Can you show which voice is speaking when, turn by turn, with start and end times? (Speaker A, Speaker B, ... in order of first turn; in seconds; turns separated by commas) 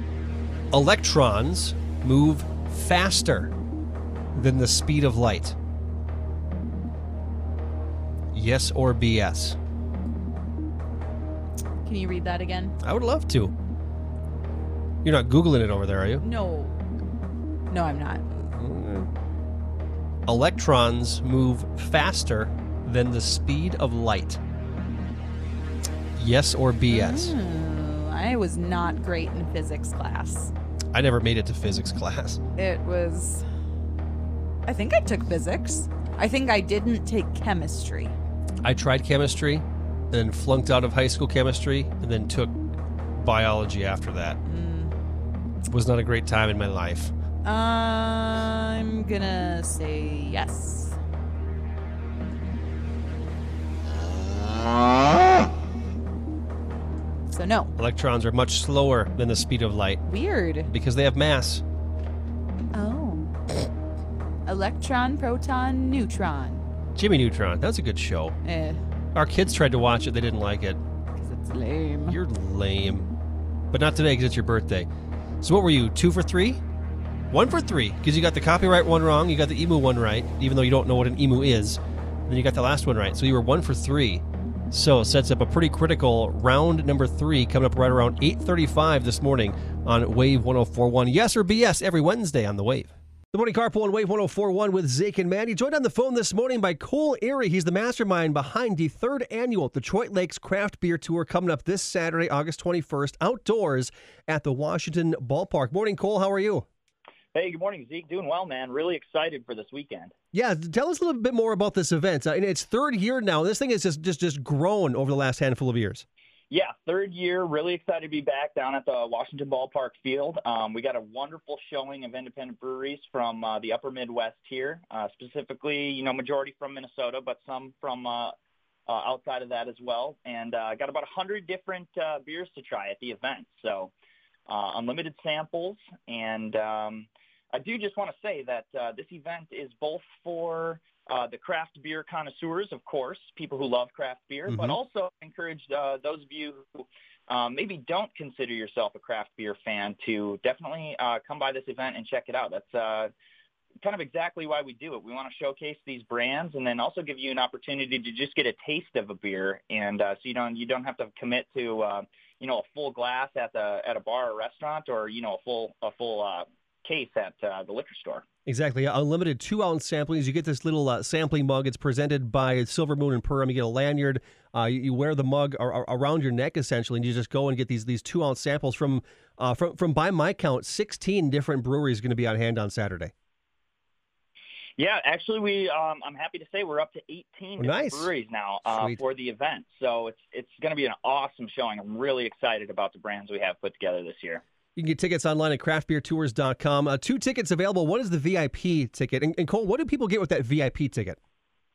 Speaker A: 0.7-3.5, Speaker A: 4.3-5.5, Speaker A: 8.3-9.6, Speaker B: 11.8-12.8, Speaker A: 12.8-13.5, Speaker A: 15.0-16.2, Speaker B: 16.2-16.8, Speaker B: 17.7-18.2, Speaker A: 18.3-19.1, Speaker A: 20.2-24.4, Speaker A: 26.1-27.3, Speaker B: 26.9-30.5, Speaker A: 30.9-32.4, Speaker B: 32.5-33.4, Speaker B: 34.6-38.1, Speaker A: 38.6-42.6, Speaker A: 43.1-44.4, Speaker B: 44.4-44.9, Speaker A: 45.7-47.1, Speaker B: 47.4-51.0, Speaker B: 57.3-57.7, Speaker A: 57.8-60.0, Speaker B: 60.0-60.7, Speaker A: 60.7-61.6, Speaker B: 62.7-63.3, Speaker B: 64.5-66.6, Speaker A: 67.0-68.3, Speaker B: 68.4-68.8, Speaker A: 69.1-70.8, Speaker B: 71.2-72.2, Speaker A: 72.0-73.1, Speaker A: 73.7-74.9, Speaker A: 75.4-76.6, Speaker A: 77.3-106.7, Speaker C: 107.3-110.1, Speaker A: 110.3-116.0, Speaker C: 116.5-128.3, Speaker C: 128.9-133.9, Speaker C: 134.5-153.1, Speaker A: 144.5-144.8, Speaker C: 153.8-168.2, Speaker A: 168.4-183.1, Speaker C: 184.8-194.4, Speaker A: 187.6-188.1, Speaker A: 188.6-189.0, Speaker A: 194.8-201.2